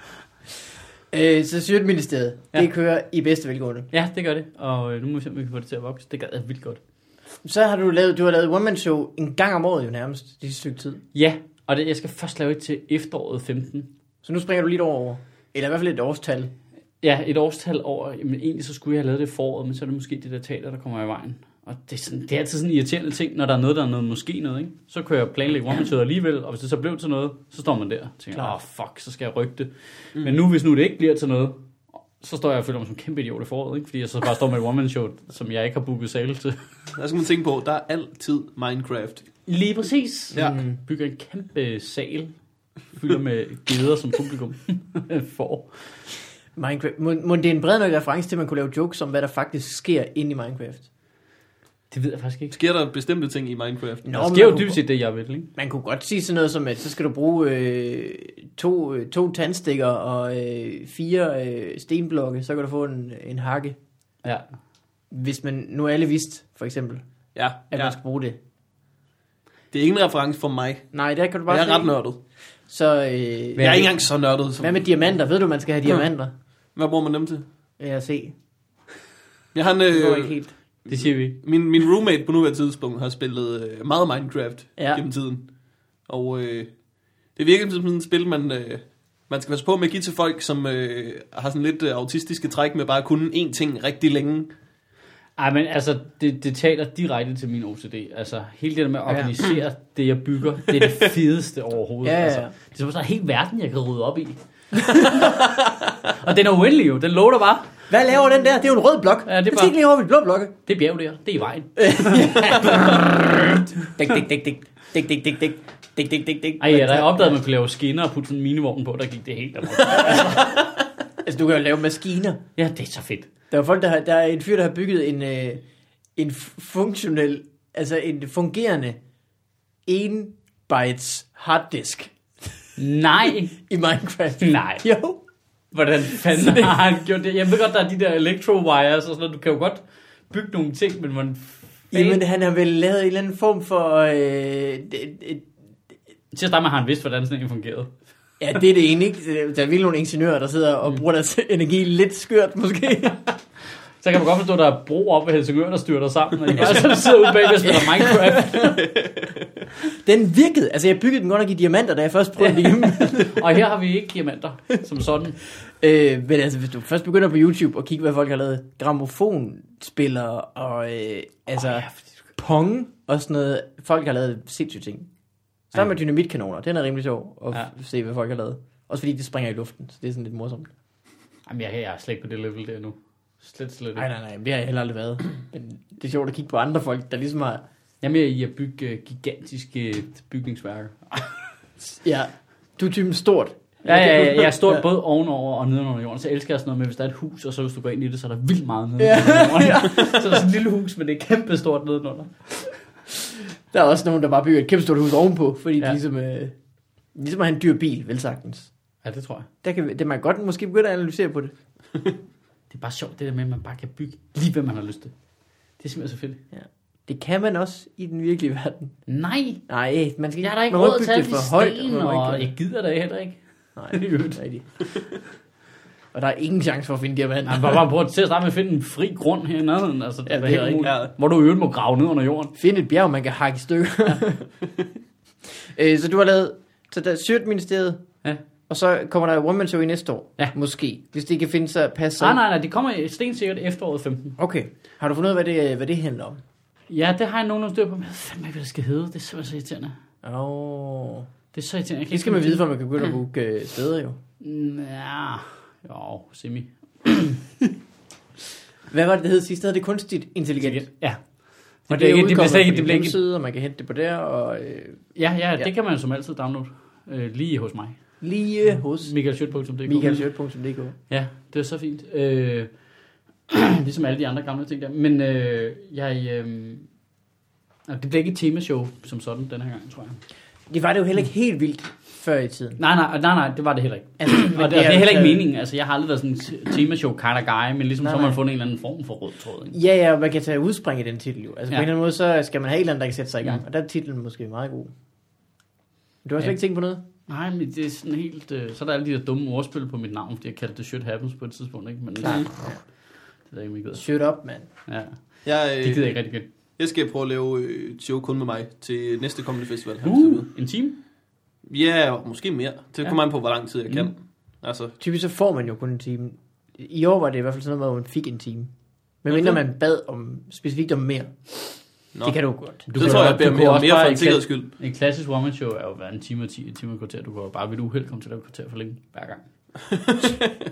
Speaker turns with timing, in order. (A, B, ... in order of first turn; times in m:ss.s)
0:01.1-0:03.9 A
0:03.9-0:06.8 B
0:07.4-0:11.0 A
0:11.1-0:13.9 B
0:14.2-0:16.5 A
0:17.0-0:31.6 B
0:32.2-0:36.6 B
0:37.0-0:39.2 C
0:39.5-0:42.3 B
0:40.3-0:40.8 A
0:42.9-0:45.7 B
0:46.6-0:50.9 A
0:51.9-0:52.5 B
0:52.5-0:54.0 C
0:54.0-0:54.8 A
0:54.1-0:55.5 B
0:55.6-1:03.8 A
1:05.1-1:07.0 A
1:07.3-1:07.9 C
1:07.7-1:08.4 A
1:09.7-1:10.9 C
1:10.9-1:12.0 A
1:11.5-1:12.2 C
1:12.7-1:13.9 A
1:13.6-1:13.9 B
1:13.6-1:14.8 C
1:14.6-1:16.3 A
1:16.8-1:17.4 C
1:17.8-1:18.3 A
1:19.5-1:25.4 C
1:19.9-1:20.5 A
1:20.9-1:21.4 B
1:24.8-1:25.0 A
1:26.1-1:26.7 C
1:27.4-1:34.5 C
1:35.4-1:45.4 B
1:39.1-1:39.3 A
1:42.0-1:42.5 A
1:44.8-1:45.3 A
1:46.0-1:47.7 B
1:47.9-1:50.5 A
1:49.3-1:49.7 B
1:50.6-1:53.1 B
1:51.8-1:57.3 A
1:56.6-2:00.5 B
1:59.9-2:00.6 A
2:01.2-2:02.4 A
2:02.6-2:03.3 B
2:03.5-2:05.6 A
2:06.2-2:09.0 A
2:09.8-2:12.1 A
2:12.8-2:13.6 B
2:13.6-2:15.2 A
2:14.4-2:14.8 B
2:15.7-2:22.2 B
2:16.1-2:16.8 A
2:21.9-2:25.5 A
2:26.3-2:27.9 B
2:28.4-2:33.2 A
2:34.0-2:38.8 B
2:36.6-2:38.8 A
2:38.8-2:39.4 C
2:39.9-2:43.4 A
2:42.4-2:45.4 B
2:45.6-2:55.1 A
2:51.6-2:52.2 B
2:55.7-3:00.7 A
3:01.5-3:04.0 B
3:04.0-3:07.6 A
3:08.0-3:11.3 B
3:11.9-3:14.8 A
3:13.8-3:22.8 B
3:19.0-3:20.4 A
3:23.7-3:26.5 A
3:27.1-3:28.7 A
3:29.0-3:29.5 B
3:29.6-3:31.5 A
3:32.7-3:35.1 B
3:35.8-3:36.4 B
3:36.5-3:39.0 A
3:39.1-3:39.6 B
3:39.7-3:42.5 A
3:40.4-3:44.4 B
3:43.8-3:44.6 A
3:46.1-3:47.8 A
3:47.4-3:52.5 B
3:50.3-3:50.9 A
3:50.8-3:51.1 C
3:52.6-3:54.5 A
3:55.6-3:58.0 A
3:58.7-4:02.4 A
4:02.2-4:04.4 B
4:04.4-4:06.4 A
4:06.9-4:10.0 B
4:10.2-4:11.3 A
4:11.5-4:12.6 B
4:12.1-4:14.2 A
4:14.4-4:17.5 B
4:18.9-4:20.9 A
4:20.6-4:23.2 B
4:21.9-4:25.7 A
4:25.2-4:28.2 B
4:28.2-4:29.2 A
4:28.8-4:30.2 B
4:29.8-4:31.0 A
4:31.1-4:32.7 B
4:33.5-4:36.9 B
4:37.9-4:40.2 B
4:40.7-4:42.8 A
4:42.8-4:49.8 B
4:44.2-4:45.4 A
4:48.0-4:48.4 A
4:49.7-4:54.9 A
4:56.2-4:57.0 A
4:57.3-5:02.6 B
5:02.2-5:02.8 A
5:03.5-5:04.0 B
5:03.9-5:04.7 A
5:04.9-5:06.4 B
5:05.4-5:06.2 C
5:06.8-5:10.5 C
5:10.0-5:11.0 B
5:11.7-5:14.9 C
5:15.0-5:18.7 A
5:19.2-5:21.3 A
5:22.2-5:23.2 A
5:22.9-5:29.4 B
5:22.9-5:24.7 C
5:29.9-5:30.5 C